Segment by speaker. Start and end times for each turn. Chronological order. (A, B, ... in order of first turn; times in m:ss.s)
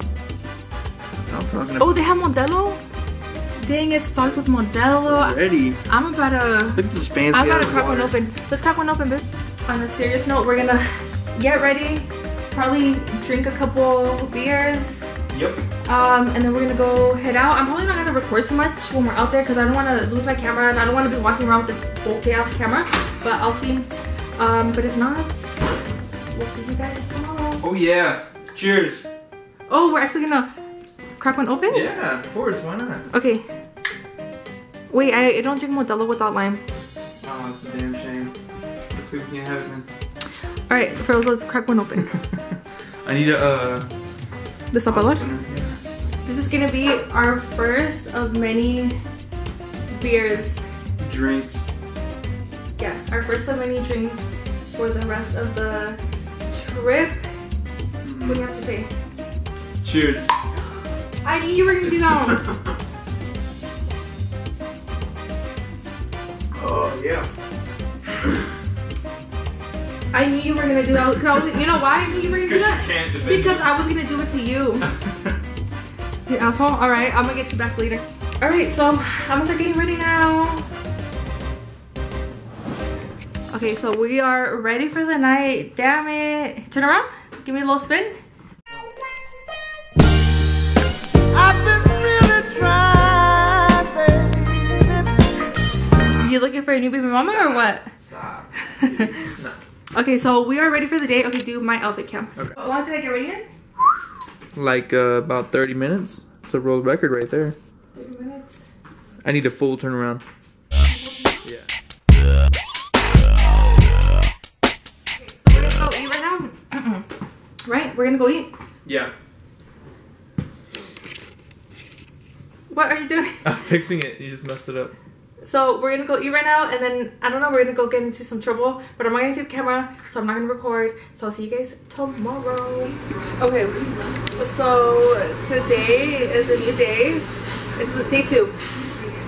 0:01.1-0:02.0 A
0:01.8-0:02.8 B
0:03.6-0:15.1 B
0:05.0-0:05.8 A
0:06.7-0:08.1 A
0:15.3-0:15.6 A
0:15.8-0:25.6 B
0:26.3-0:27.7 B
0:27.6-0:29.1 A
0:29.7-0:30.5 B
0:31.2-0:31.9 B
0:31.7-0:33.0 A
0:33.1-0:33.4 B
0:34.9-0:36.6 B
0:37.2-0:38.3 A
0:38.9-0:39.9 A
0:40.7-0:42.1 B
0:43.0-0:43.9 A
0:44.7-0:45.2 B
0:44.9-0:45.8 A
0:46.2-0:49.0 B
0:49.9-0:50.6 B
0:51.0-0:51.7 A
0:52.8-0:56.0 B
0:56.5-0:57.2 B
0:58.0-0:58.4 A
0:58.2-0:58.9 B
0:59.8-1:00.3 A
1:01.2-1:02.4 B
1:01.8-1:02.7 A
1:06.5-1:07.3 A
1:10.1-1:14.9 B
1:12.1-1:13.6 A
1:14.8-1:15.3 A
1:16.3-1:20.6 B
1:23.5-1:28.2 B
1:31.3-1:35.1 C
1:36.2-1:37.9 B
1:37.1-1:39.6 A
1:38.6-1:39.2 B
1:39.9-1:43.4 B
1:44.5-1:47.6 A
1:47.9-1:48.6 B
1:49.2-1:50.2 A
1:50.9-1:51.4 B
1:51.4-1:51.7 A
1:55.2-1:57.0 B
1:57.6-1:58.5 B
1:58.8-1:59.1 A
2:02.7-2:03.4 B
2:03.4-2:04.9 A
2:05.4-2:17.2 B
2:17.8-2:18.5 B